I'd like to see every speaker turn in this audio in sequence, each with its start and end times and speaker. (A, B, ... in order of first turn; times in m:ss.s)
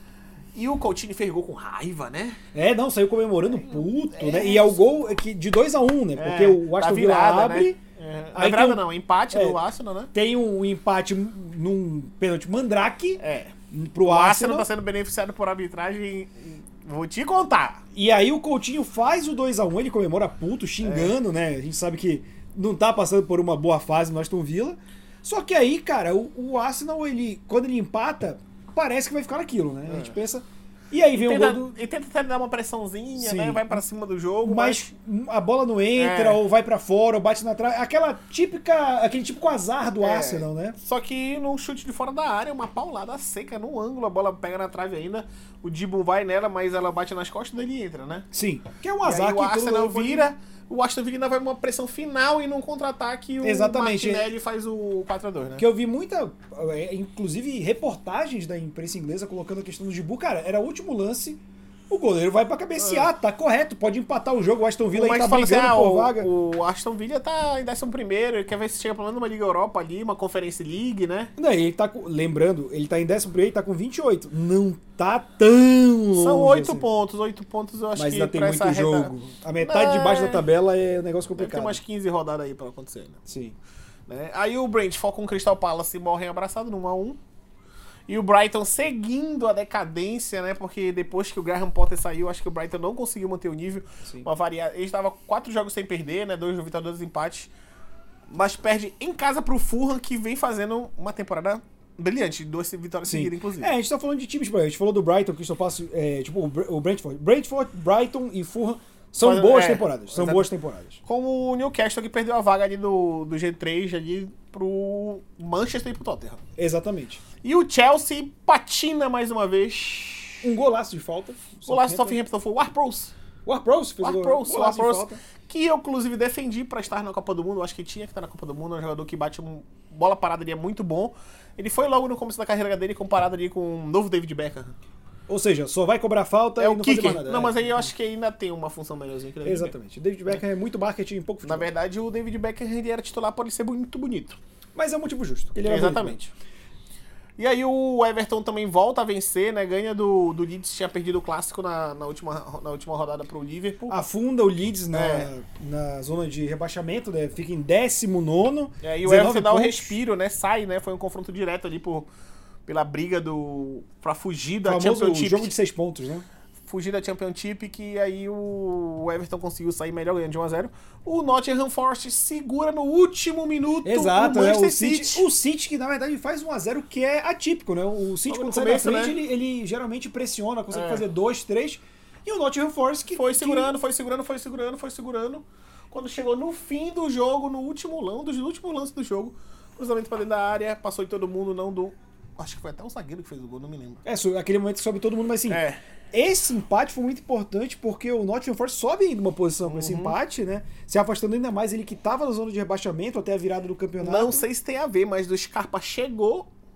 0:00.5-0:02.4 A
0:02.5-0:07.8 B
0:03.4-0:04.8 A
0:06.2-0:10.1 A
0:08.3-0:09.6 B
0:10.1-0:14.7 B
0:13.2-0:17.8 A
0:17.9-0:31.7 B
0:20.8-0:21.1 A
0:29.9-0:30.1 A
0:31.1-0:34.9 A
0:33.2-0:33.8 B
0:34.4-0:40.8 B
0:36.0-0:36.4 A
0:40.0-0:48.3 A
0:48.3-0:50.3 B
0:49.0-0:55.6 A
0:53.4-0:54.3 B
0:55.6-1:06.3 B
1:02.8-1:03.1 A
1:04.9-1:11.3 A
1:11.4-1:16.8 B
1:16.1-1:20.4 A
1:17.9-1:21.8 B
1:21.4-1:23.2 A
1:23.3-1:23.6 B
1:24.1-1:27.2 A
1:28.1-1:37.5 A
1:38.3-1:43.7 A
1:43.0-1:51.0 B
1:49.2-1:50.5 A
1:51.0-1:56.4 A
1:56.6-1:57.2 B
1:57.4-2:00.5 A
2:00.4-2:02.2 B
2:01.6-2:03.1 A
2:03.4-2:05.2 B
2:04.0-2:14.7 A
2:15.3-2:17.9 B
2:16.6-2:19.7 A
2:19.4-2:21.7 B
2:21.4-2:24.4 A
2:24.7-2:26.2 B
2:25.6-2:26.3 A
2:27.4-2:34.0 A
2:33.9-2:40.0 B
2:34.9-2:35.3 A
2:38.8-2:42.1 A
2:42.6-2:45.5 A
2:44.6-2:46.2 B
2:46.7-2:55.2 A
2:53.8-3:03.7 B
2:58.3-2:59.2 A
3:00.7-3:01.0 A
3:03.1-3:14.0 A
3:14.0-3:15.6 B
3:15.5-3:15.8 A
3:16.1-3:24.4 B
3:19.6-3:20.2 A
3:24.0-3:26.5 A